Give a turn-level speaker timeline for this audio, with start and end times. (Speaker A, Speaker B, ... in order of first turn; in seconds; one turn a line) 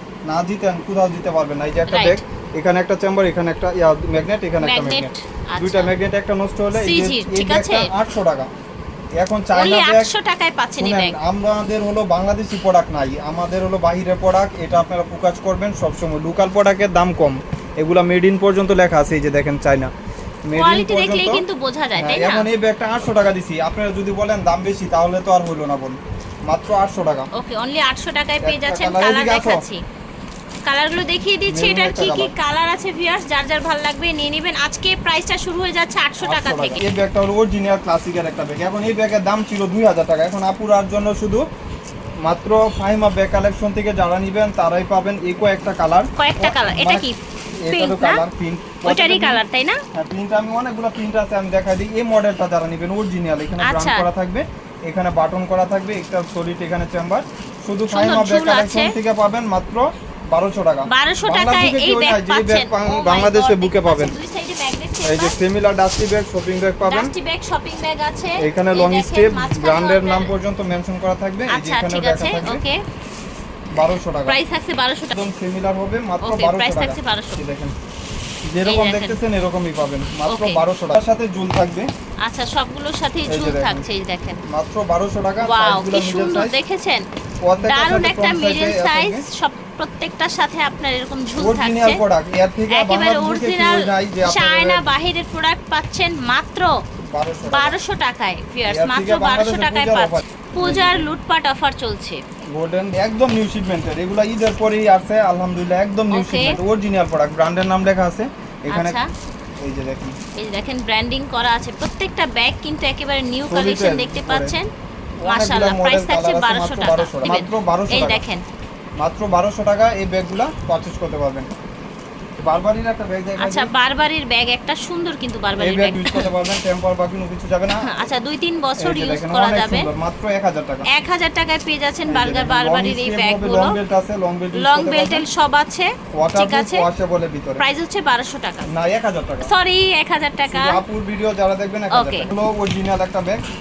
Speaker A: 0.3-8.5
Speaker B: 1.9-2.2
Speaker B: 4.6-5.9
Speaker B: 6.7-7.9
Speaker A: 9.2-10.1
Speaker B: 9.5-11.2
Speaker A: 10.8-19.9
Speaker A: 20.5-21.4
Speaker B: 20.6-22.5
Speaker A: 22.0-27.3
Speaker B: 27.3-29.8
Speaker A: 28.4-29.7
Speaker B: 30.7-36.8
Speaker A: 31.5-32.3
Speaker A: 36.2-41.4
Speaker A: 42.2-47.0
Speaker B: 46.2-47.2
Speaker A: 47.6-49.4
Speaker B: 47.7-48.2
Speaker B: 48.8-49.8
Speaker A: 49.9-64.2
Speaker B: 53.6-54.0
Speaker B: 57.9-59.0
Speaker B: 60.9-65.3
Speaker A: 65.0-67.1
Speaker B: 66.8-70.3
Speaker A: 68.4-72.6
Speaker B: 71.5-72.8
Speaker A: 73.7-74.4
Speaker B: 74.2-75.2
Speaker A: 75.1-77.7
Speaker B: 76.2-77.4
Speaker A: 78.5-81.9
Speaker B: 78.7-79.2
Speaker B: 80.3-80.6
Speaker B: 82.2-84.4
Speaker A: 83.3-83.8
Speaker A: 84.4-86.5
Speaker B: 85.4-87.0
Speaker A: 87.4-89.2
Speaker B: 87.6-92.0
Speaker A: 91.4-94.9
Speaker B: 92.7-96.8
Speaker A: 97.1-97.8
Speaker B: 97.5-102.2
Speaker A: 98.7-101.1
Speaker A: 102.5-109.0
Speaker B: 106.1-106.6
Speaker B: 108.7-109.1
Speaker A: 109.6-110.2
Speaker B: 110.4-114.7
Speaker A: 113.5-114.5
Speaker A: 115.2-118.2
Speaker B: 115.2-118.4
Speaker A: 119.0-121.5
Speaker A: 122.4-123.7
Speaker B: 123.4-126.3
Speaker A: 125.6-127.9
Speaker B: 127.8-129.9
Speaker A: 128.8-130.9
Speaker B: 130.9-133.8
Speaker A: 132.1-135.2
Speaker B: 134.5-136.8
Speaker A: 136.2-137.6
Speaker B: 137.6-138.7
Speaker A: 138.7-139.5
Speaker B: 139.4-140.8
Speaker A: 140.4-143.4
Speaker B: 141.9-142.3